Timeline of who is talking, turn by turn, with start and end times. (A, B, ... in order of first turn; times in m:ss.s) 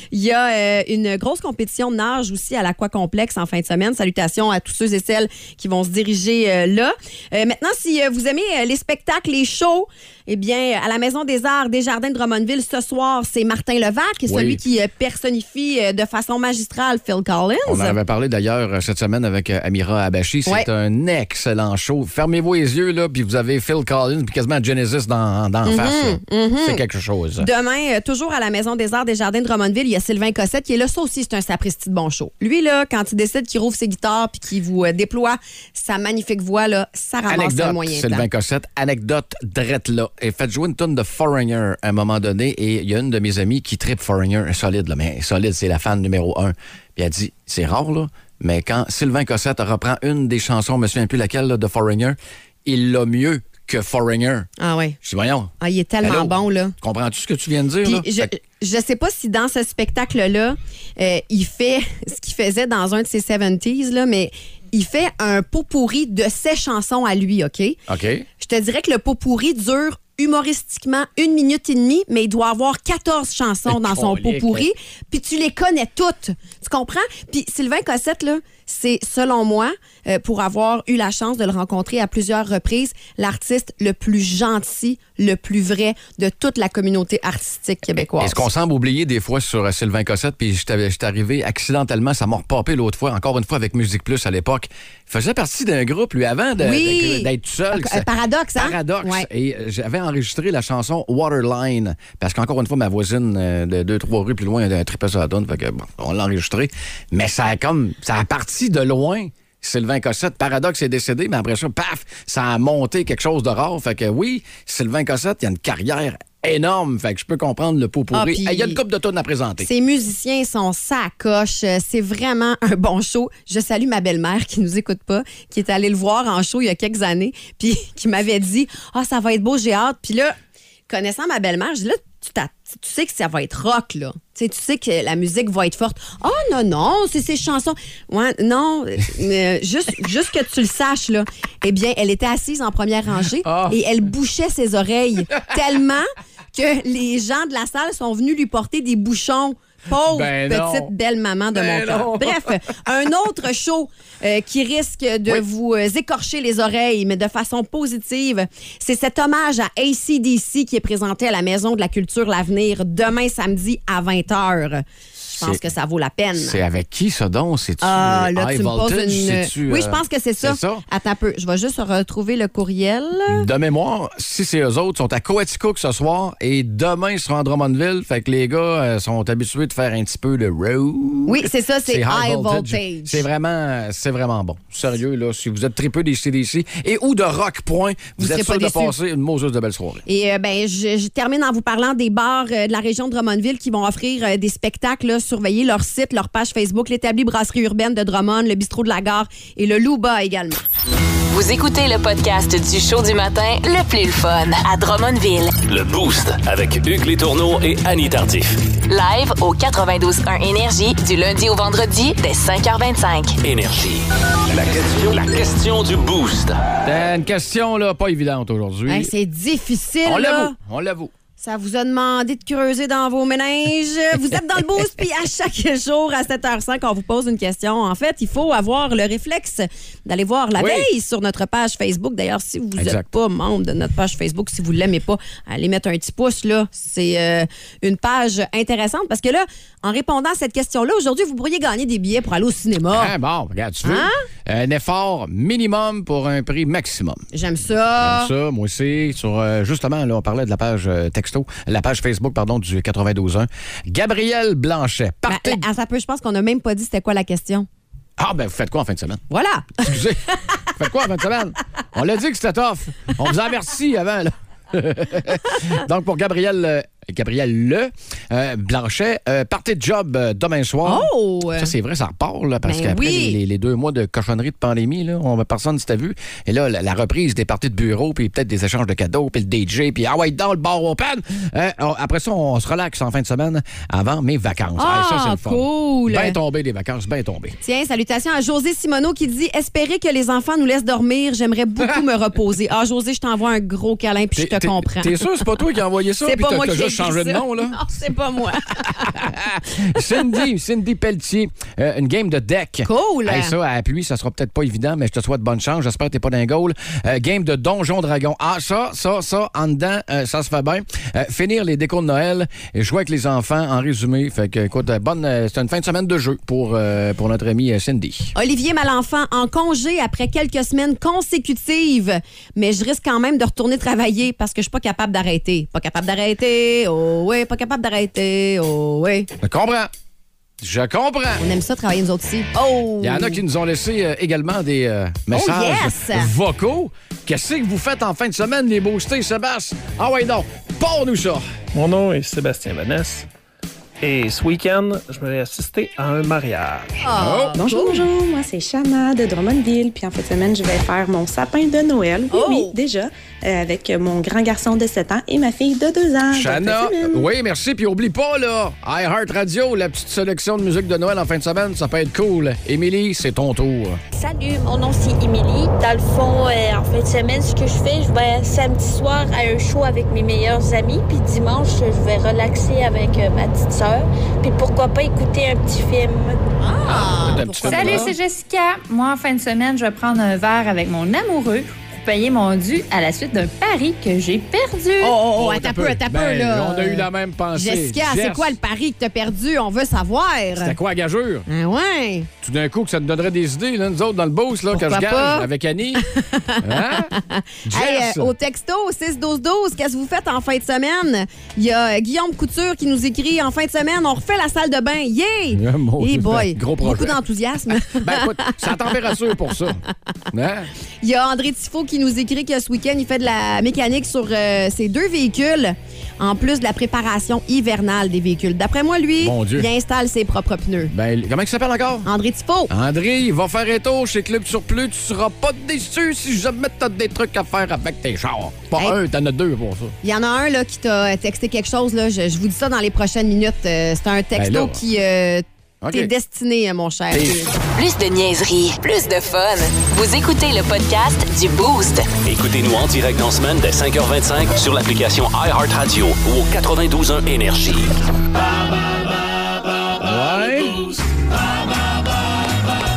0:00.1-0:18.0 A
0:14.3-0:14.6 B
0:17.6-0:27.5 B
0:25.6-0:26.8 A
0:27.4-0:38.2 A
0:37.3-0:54.5 B
0:54.6-0:55.0 A
0:55.0-0:55.5 B
0:55.6-0:56.7 A
0:56.0-0:58.3 B
0:57.8-1:07.8 A
1:07.9-1:08.3 B
1:08.4-1:28.4 A
1:13.6-1:14.7 B
1:28.2-1:59.7 B
1:36.6-1:39.3 A
1:58.1-1:58.8 A
1:59.6-2:10.3 A
2:10.9-2:46.6 A
2:23.4-2:23.8 B
2:30.0-2:30.9 B
2:31.5-2:32.8 B
2:45.2-2:45.6 B
2:46.4-2:50.8 B
2:47.8-2:53.4 A
2:53.3-3:10.0 B
3:01.3-3:03.2 A
3:08.2-3:08.9 A
3:10.0-3:20.6 A
3:21.3-3:25.5 C
3:25.6-3:28.7 D
3:28.8-3:33.4 C
3:33.4-3:36.6 D
3:36.8-3:39.1 B
3:38.9-3:40.5 A
3:40.0-3:41.1 B
3:41.4-4:03.1 A
3:50.6-3:50.9 B
3:52.8-3:53.1 B
4:02.9-4:07.2 B
4:03.8-4:04.2 A
4:07.3-4:08.3 A
4:08.0-4:15.6 B
4:15.2-4:17.7 A
4:18.2-4:19.2 B
4:19.3-4:20.5 A
4:19.8-4:47.6 B
4:30.8-4:31.7 A
4:32.6-4:33.4 A
4:44.8-4:46.4 A
4:47.6-4:55.4 A
4:54.4-4:57.9 B
4:56.2-4:59.2 A
4:58.8-5:18.3 B
5:02.8-5:03.5 A
5:18.3-5:29.3 A
5:29.4-5:29.9 B
5:30.6-5:31.4 B
5:31.4-5:33.4 A
5:33.0-5:41.4 B
5:35.3-5:36.3 A
5:41.7-5:43.3 E
5:44.0-5:47.0 E
5:47.0-5:48.0 A
5:47.2-5:47.6 B
5:47.6-5:57.3 F
5:52.3-5:52.8 A
5:56.3-6:04.0 B
6:04.1-6:16.4 G
6:16.6-6:18.1 A
6:16.8-6:18.2 B
6:17.6-6:25.2 H
6:25.0-6:30.8 A
6:25.2-6:28.6 B
6:30.5-6:31.5 B
6:31.5-6:32.3 A
6:32.4-6:36.1 B
6:34.7-6:35.5 A
6:36.0-6:48.9 A
6:36.6-6:37.1 B
6:37.6-6:38.3 B
6:45.5-6:47.2 B
6:47.7-6:50.7 B
6:51.0-7:00.9 A
6:59.2-6:59.7 B
7:00.9-7:02.1 B
7:02.0-7:02.7 A
7:02.7-7:10.0 B
7:10.0-7:17.5 A
7:14.3-7:14.8 B
7:15.8-7:16.1 B
7:17.1-7:17.5 B
7:17.7-7:22.1 C
7:22.2-7:27.9 D
7:30.0-7:30.9 B